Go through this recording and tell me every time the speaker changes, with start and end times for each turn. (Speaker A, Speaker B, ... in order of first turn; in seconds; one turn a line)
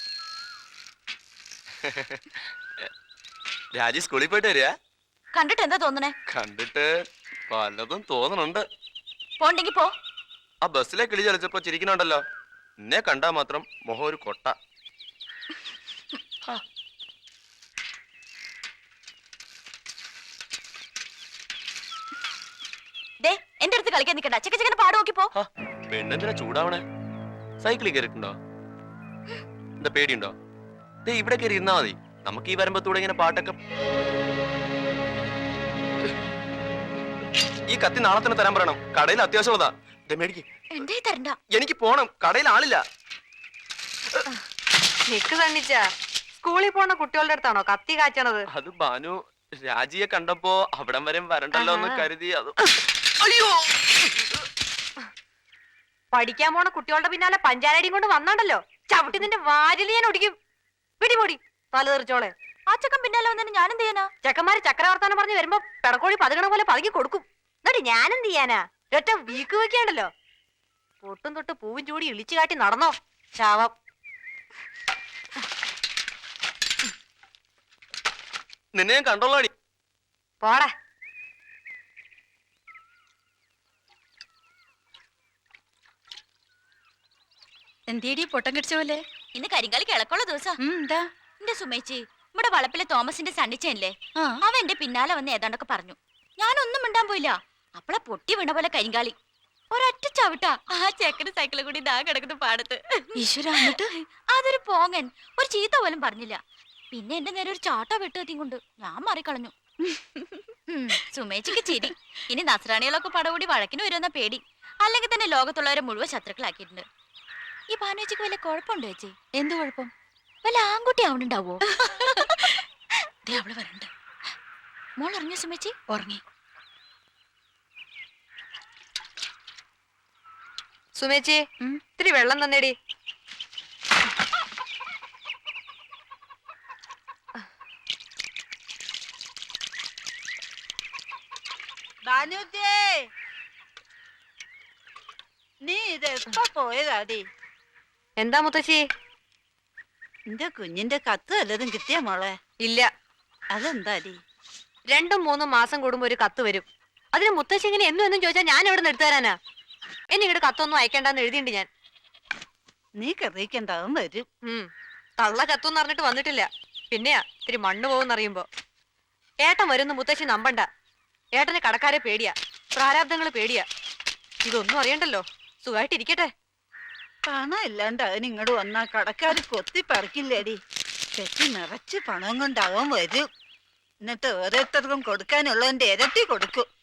Speaker A: 3.7-4.7
Speaker B: 5.3-6.1
Speaker A: 6.3-6.9
Speaker A: 7.5-8.6
Speaker B: 9.4-9.9
Speaker A: 10.6-12.2
Speaker A: 12.8-14.5
Speaker B: 23.2-25.3
Speaker A: 25.4-26.8
Speaker A: 27.6-28.3
Speaker A: 29.8-30.3
Speaker A: 31.1-33.5
Speaker A: 37.7-40.4
Speaker B: 40.7-41.4
Speaker A: 41.5-42.8
Speaker C: 45.1-45.8
Speaker C: 46.4-48.4
Speaker A: 48.5-52.5
Speaker C: 56.1-60.3
Speaker C: 61.0-62.3
Speaker B: 62.7-64.1
Speaker C: 64.2-70.1
Speaker C: 71.0-73.7
Speaker A: 78.7-79.5
Speaker C: 80.4-80.7
Speaker D: 87.9-89.0
Speaker B: 89.3-90.5
Speaker D: 90.6-91.0
Speaker B: 91.4-99.1
Speaker D: 94.2-94.4
Speaker B: 99.7-103.7
Speaker D: 103.2-103.9
Speaker B: 104.3-106.4
Speaker B: 106.9-109.5
Speaker B: 110.7-116.8
Speaker B: 117.7-119.2
Speaker D: 119.4-119.9
Speaker B: 120.4-121.6
Speaker D: 123.2-123.9
Speaker B: 125.0-125.7
Speaker D: 125.9-126.2
Speaker C: 131.0-131.4
Speaker C: 132.0-132.7
Speaker E: 142.0-143.0
Speaker E: 145.7-147.2
Speaker C: 148.2-148.8
Speaker E: 150.3-152.3
Speaker E: 153.5-154.2
Speaker C: 154.9-159.3
Speaker C: 160.1-161.7
Speaker E: 163.0-164.2
Speaker C: 165.2-168.4
Speaker C: 169.4-170.6
Speaker C: 171.4-173.6
Speaker C: 174.4-176.3
Speaker E: 177.3-180.6
Speaker E: 181.2-183.2
Speaker E: 184.0-186.6